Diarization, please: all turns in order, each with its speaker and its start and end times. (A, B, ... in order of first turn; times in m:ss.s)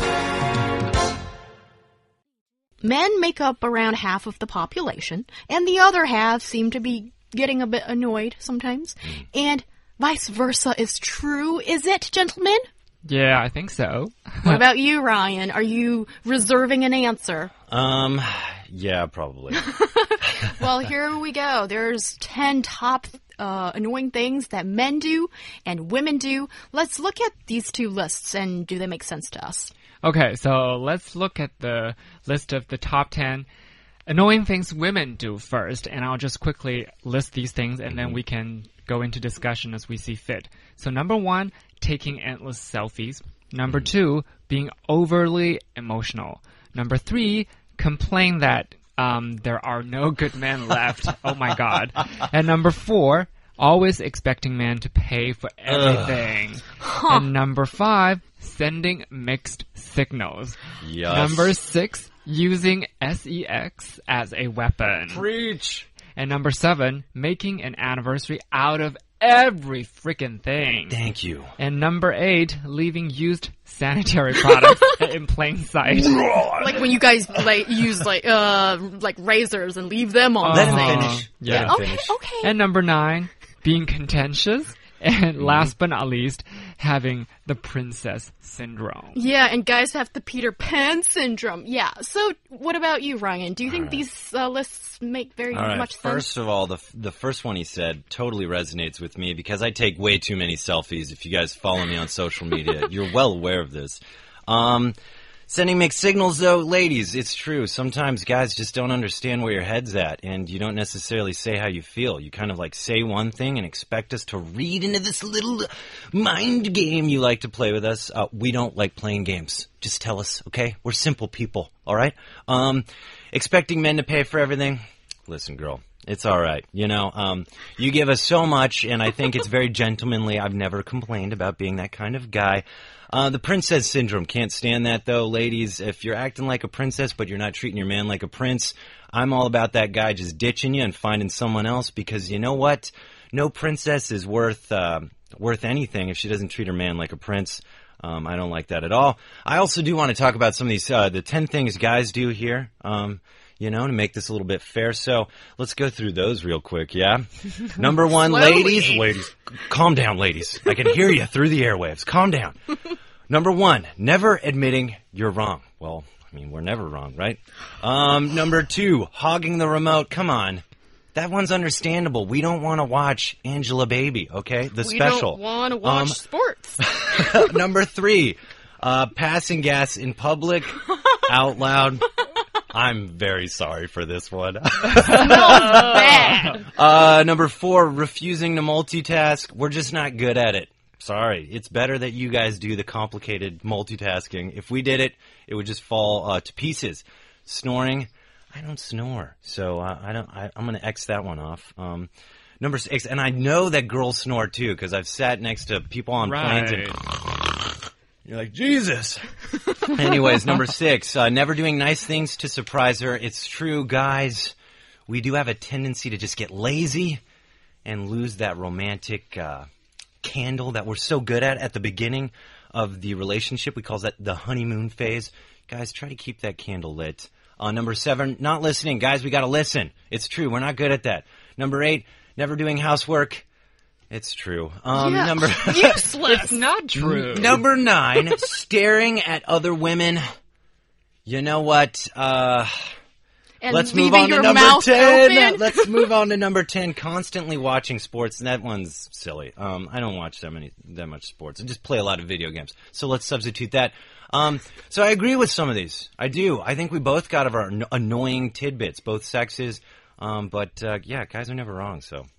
0:02.8-0:12.6 A
0:13.0-0:14.6 B
0:14.4-0:17.5 A
0:17.7-0:19.6 C
0:19.5-0:29.7 A
0:30.0-0:33.5 B
0:34.1-1:05.2 B
0:37.9-0:38.2 C
0:55.7-0:56.3 C
0:56.8-0:57.3 A
1:00.8-1:01.5 C
1:05.1-1:05.9 C
1:06.2-1:11.0 B
1:10.9-1:11.5 C
1:11.6-1:16.3 B
1:15.9-1:16.9 C
1:16.6-1:22.5 A
1:20.4-1:21.8 B
1:20.5-1:22.2 C
1:22.4-1:29.2 B
1:25.4-1:25.7 C
1:29.1-1:36.3 A
1:33.7-1:34.0 C
1:35.5-1:44.9 C
1:45.5-2:42.8 C
2:38.1-2:39.1 A
2:43.3-2:50.6 C
2:51.1-2:56.2 C
2:54.8-2:56.8 A
2:56.8-3:02.1 C
3:02.7-3:27.4 C
3:05.1-3:06.6 A
3:26.2-3:27.0 B
3:28.2-3:29.2 C
3:29.8-3:34.5 C
3:35.1-3:37.2 C
3:37.8-3:39.6 C
3:40.2-3:53.4 C
3:54.1-3:56.1 C
3:54.9-3:56.6 A
3:56.2-3:57.6 B
3:56.9-4:00.2 C
4:01.2-4:02.8 C
4:03.6-4:06.1 A
4:03.7-4:22.3 C